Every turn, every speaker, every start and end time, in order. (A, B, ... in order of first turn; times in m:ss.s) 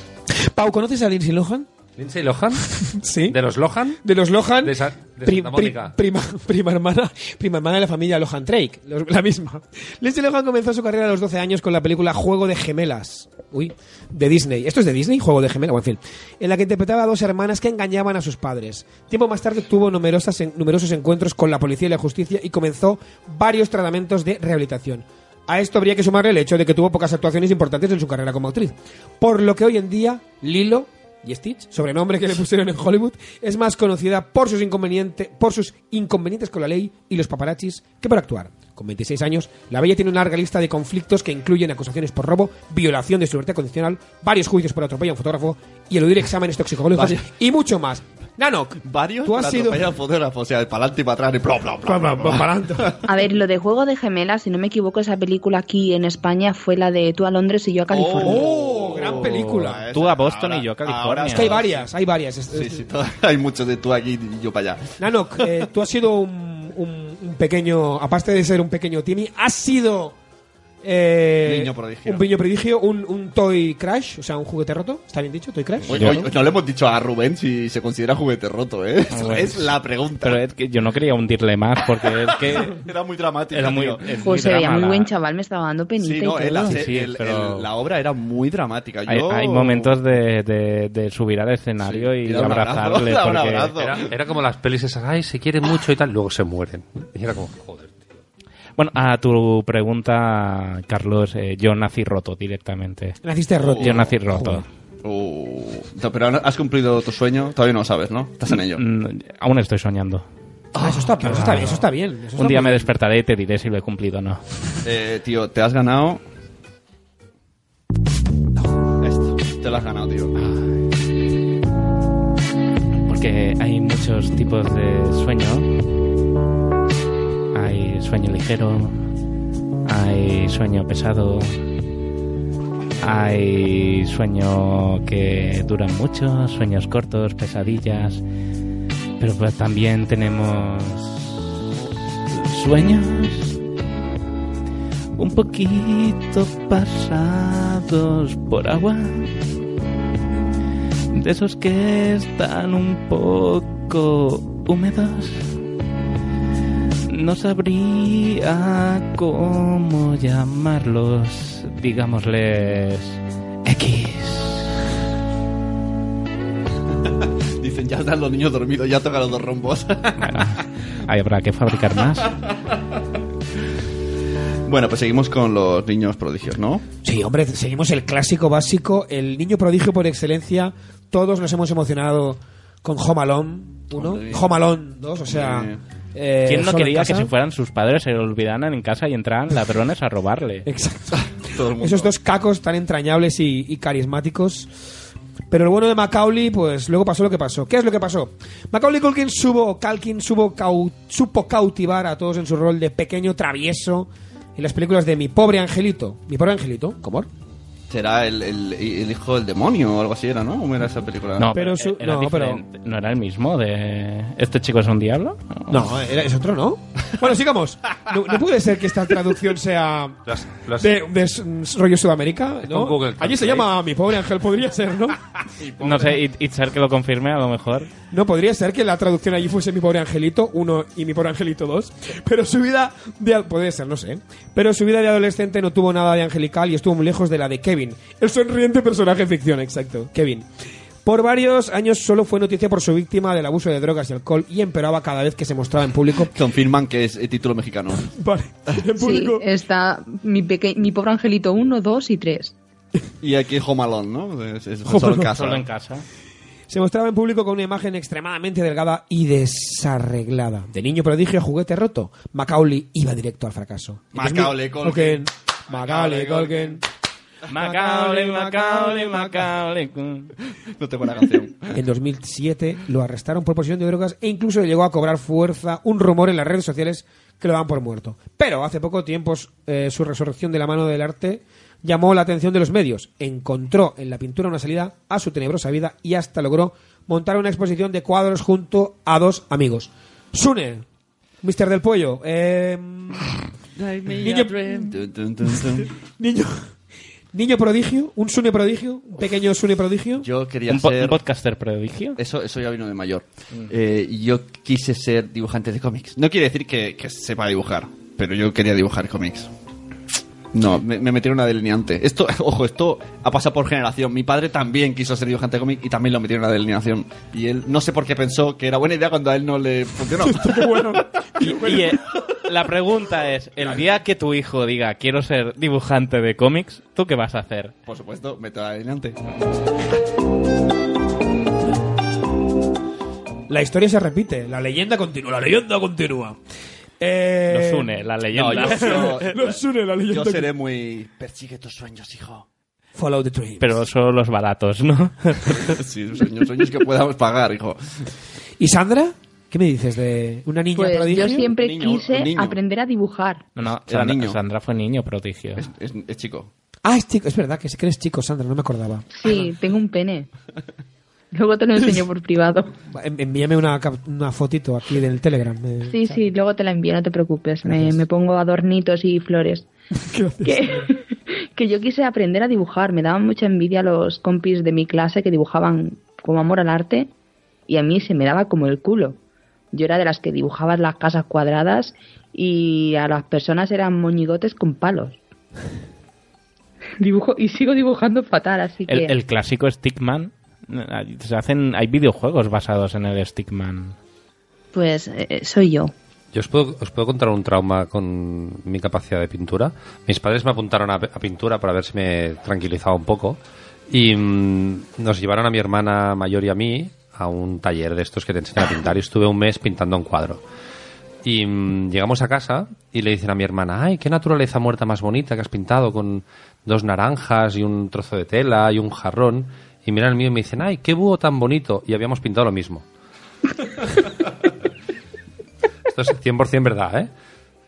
0:00.5-0:01.7 A
0:02.0-0:02.7 B
0:03.0-0:03.4 A
0:03.3-0:04.0 B
0:04.0-0:49.8 A
0:04.6-0:06.0 B
0:46.9-0:47.2 C
0:48.8-0:53.0 C
0:51.8-0:52.9 A
0:53.0-0:58.5 D
0:57.9-1:01.9 C
0:58.2-0:59.8 A
0:59.8-1:01.5 E
1:01.3-1:02.8 A
1:02.5-1:05.6 C
1:05.0-1:10.2 A
1:10.8-1:16.2 A
1:11.4-1:12.2 C
1:15.8-1:20.4 C
1:15.9-1:16.3 E
1:19.1-1:22.8 E
1:22.4-1:24.0 C
1:23.5-1:25.1 E
1:24.2-1:26.8 D
1:26.0-1:30.0 C
1:26.5-1:27.7 E
1:29.1-1:33.7 E
1:31.8-1:34.1 C
1:33.8-1:38.1 B
1:38.8-1:43.2 E
1:43.2-1:44.6 A
1:43.6-1:44.2 C
1:43.7-1:44.6 E
1:45.0-1:48.8 C
1:48.8-1:50.2 E
1:50.8-1:51.5 C
1:50.8-1:52.9 A
1:51.2-1:54.4 E
1:54.8-1:56.2 C
1:59.0-2:00.3 C
2:00.4-2:00.8 E
2:03.1-2:05.7 E
2:07.5-2:09.0 E
2:09.8-2:11.6 E
2:13.0-2:18.2 E
2:19.2-2:21.4 E
2:22.3-2:23.6 E
2:25.2-2:29.3 E
2:31.1-2:35.5 E
2:37.1-2:44.7 E
2:47.6-2:50.3 C
2:50.2-2:52.3 E
2:54.6-2:56.8 C
2:57.0-3:07.3 A
3:03.9-3:04.6 C
3:05.2-3:05.8 C
3:06.4-3:10.6 E
3:10.6-3:11.2 A
3:11.1-3:12.1 C
3:11.8-3:14.7 A
3:15.5-3:27.3 A
3:27.9-3:31.5 C
3:31.4-3:35.8 E
3:31.5-3:32.6 A
3:35.7-3:40.2 A
3:40.2-3:41.0 B
3:40.8-3:45.2 A
3:42.6-3:43.6 B
3:45.6-3:46.2 C
3:45.8-3:47.9 E
3:48.1-4:00.4 A
4:01.0-4:06.3 A
4:06.3-4:08.1 C
4:08.1-4:09.4 A
4:09.0-4:12.5 D
4:13.2-4:15.6 C
4:14.9-4:15.3 A
4:15.2-4:16.0 E
4:16.7-4:26.8 A
4:24.1-4:26.8 C
4:27.5-4:30.3 E
4:27.6-4:29.5 A
4:30.8-4:31.8 C
4:31.7-4:50.8 A
4:51.4-4:53.3 A
4:53.8-4:55.9 C
4:54.2-4:54.7 A
4:56.2-4:56.6 A
4:57.3-5:00.2 A
5:00.2-5:01.2 C
5:00.7-5:02.2 E
5:02.2-5:09.5 C
5:10.5-5:21.0 C
5:20.2-5:21.9 A
5:21.4-5:27.7 E
5:23.6-5:23.9 C
5:27.8-5:29.2 C
5:33.5-5:36.4 A
5:37.0-5:38.0 A
5:37.5-5:39.4 E
5:38.3-5:39.5 C
5:38.6-5:40.5 A
5:40.1-5:42.4 C
5:43.0-5:43.8 A
5:43.6-5:45.7 E
5:45.5-5:47.8 C
5:48.6-5:51.5 A
5:50.7-5:53.4 D
5:51.4-5:52.6 C
5:53.5-5:55.6 E
5:53.9-5:54.4 C
5:55.6-5:56.5 C
5:56.8-5:59.0 A
5:59.1-6:00.3 D
6:01.3-6:02.7 D
6:02.9-6:06.2 A
6:05.9-6:09.7 D
6:07.7-6:08.0 A
6:10.1-6:10.9 A
6:10.4-6:17.1 D
6:17.7-6:19.2 D
6:19.7-6:25.2 D
6:27.0-6:29.1 D
6:28.9-6:34.0 E
6:34.7-6:35.9 D
6:36.3-6:43.4 B
6:43.9-6:50.4 B
6:51.2-7:02.8 B
7:05.9-7:07.1 B